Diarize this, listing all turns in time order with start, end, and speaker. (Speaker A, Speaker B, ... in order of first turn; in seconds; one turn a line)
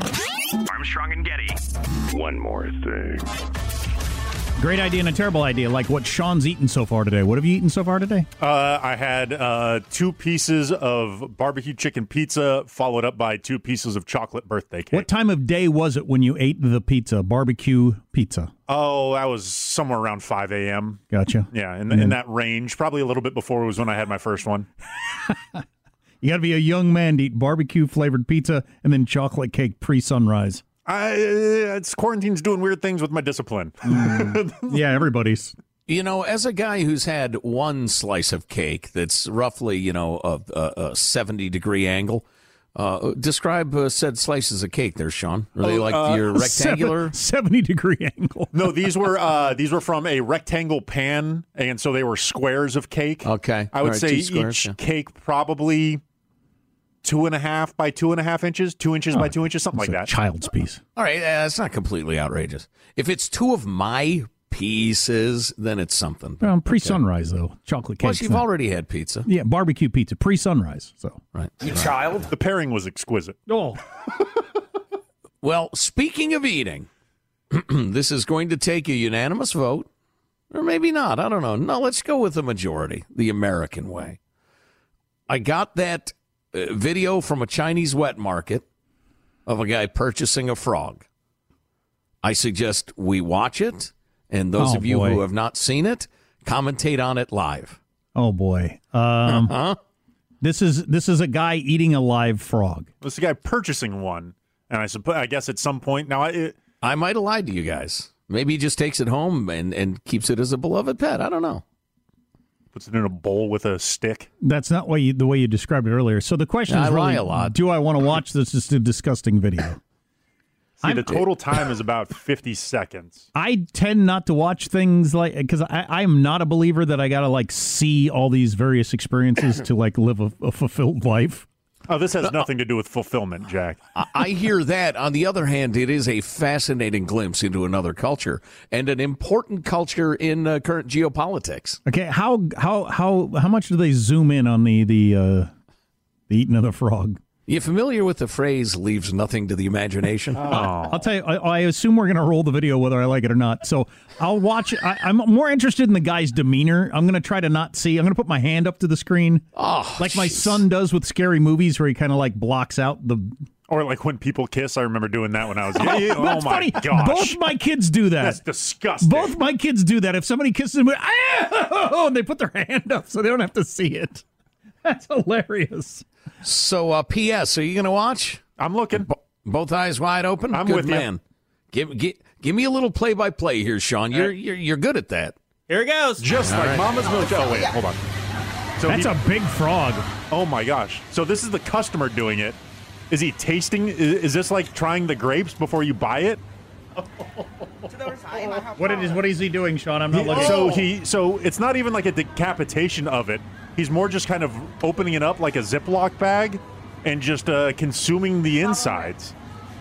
Speaker A: 0.7-3.3
Speaker B: 4.6-8.3
Speaker C: 8.4-15.1
Speaker B: 14.9-18.5
Speaker C: 18.7-24.7
Speaker B: 21.1-22.2
Speaker B: 25.1-25.6
Speaker B: 26.2-30.6
Speaker C: 30.9-34.8
Speaker B: 33.9-35.5
Speaker D: 35.9-47.2
Speaker C: 45.6-46.3
Speaker B: 46.3-48.8
Speaker C: 48.5-56.0
Speaker D: 53.2-54.8
Speaker C: 57.0-60.1
Speaker B: 59.1-60.8
Speaker D: 61.0-67.0
Speaker B: 66.4-68.5
Speaker D: 68.0-69.3
Speaker B: 69.3-71.2
Speaker D: 71.3-72.2
Speaker C: 72.3-73.4
Speaker B: 73.5-73.8
Speaker D: 75.4-76.9
Speaker D: 77.5-79.9
Speaker D: 80.5-84.2
Speaker D: 85.3-88.7
Speaker D: 89.5-91.0
Speaker D: 92.2-97.8
Speaker B: 94.6-95.2
Speaker B: 98.2-99.6
Speaker D: 99.3-99.8
Speaker B: 100.4-102.9
Speaker C: 103.0-106.6
Speaker D: 106.8-111.6
Speaker C: 112.7-114.3
Speaker B: 114.4-119.8
Speaker D: 116.7-117.6
Speaker C: 120.8-123.3
Speaker B: 120.8-121.3
Speaker B: 123.3-131.5
Speaker C: 131.9-133.8
Speaker D: 133.9-141.8
Speaker B: 141.9-145.5
Speaker B: 146.3-147.2
Speaker D: 147.5-150.6
Speaker B: 150.4-163.3
Speaker C: 150.5-151.0
Speaker D: 159.6-160.6
Speaker C: 163.7-167.4
Speaker B: 165.8-168.4
Speaker C: 168.2-169.3
Speaker B: 169.0-174.2
Speaker B: 174.8-176.0
Speaker D: 176.4-178.4
Speaker C: 178.6-179.1
Speaker D: 179.0-185.4
Speaker C: 180.5-181.1
Speaker B: 185.7-186.3
Speaker C: 186.2-188.1
Speaker D: 186.4-186.9
Speaker C: 188.8-189.1
Speaker B: 188.9-190.1
Speaker C: 190.3-192.6
Speaker C: 193.1-196.4
Speaker A: 198.0-198.8
Speaker B: 198.2-200.9
Speaker C: 200.1-209.3